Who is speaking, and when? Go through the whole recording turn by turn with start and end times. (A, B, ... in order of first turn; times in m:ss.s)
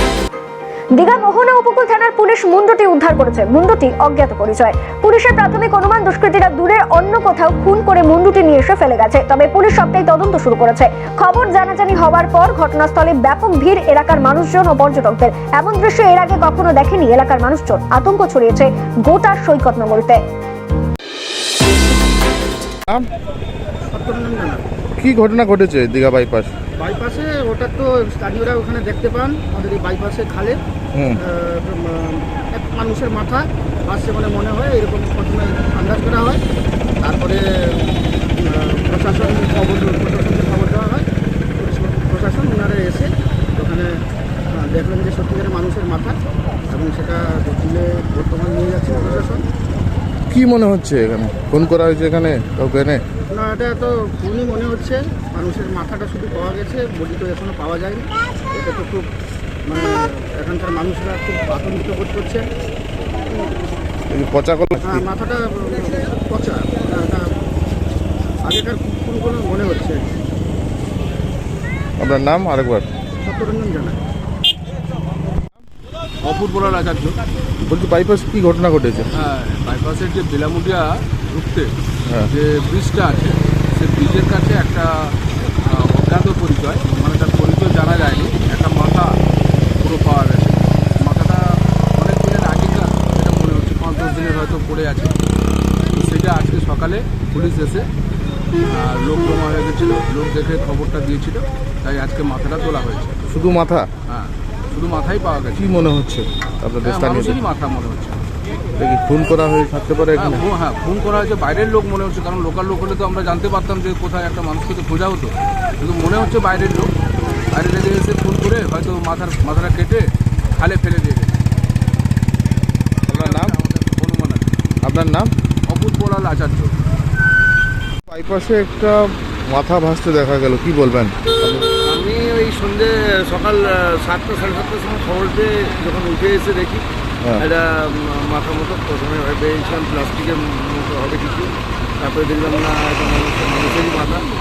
0:01.0-0:20.2 A
0:23.9-0:24.6 B
0:25.0-0:26.5 C
0:26.8-0:30.6 B
0:31.2-0:36.4 B
0:37.0-0:41.0 B
0:41.6-0:43.9 B
0:44.5-0:46.2 B
0:46.7-0:49.4 B
0:50.3-0:53.0 C
0:53.3-0:59.0 B
0:59.7-1:02.4 B
1:03.3-1:03.6 B
1:04.1-1:05.0 C
1:04.8-1:07.2 B
1:08.4-1:10.0 B
1:12.0-1:12.9 C
1:13.2-1:14.0 B
1:16.2-1:17.2 D
1:17.6-1:19.1 C
1:19.1-1:21.7 D
1:22.3-1:25.1 D
1:25.7-1:29.2 D
1:29.8-1:35.1 D
1:35.9-1:37.9 D
1:38.7-1:43.2 D
1:43.3-1:43.9 C
1:44.1-1:45.9 D
1:45.6-1:47.4 C
1:46.8-1:48.2 D
1:48.8-1:50.4 C
1:50.2-1:56.9 D
1:57.5-2:01.3 D
2:03.1-2:04.5 D
2:03.1-2:03.5 C
2:04.8-2:05.3 C
2:05.7-2:06.8 D
2:08.1-2:11.7 C
2:11.9-2:16.8 E
2:17.4-2:24.3 E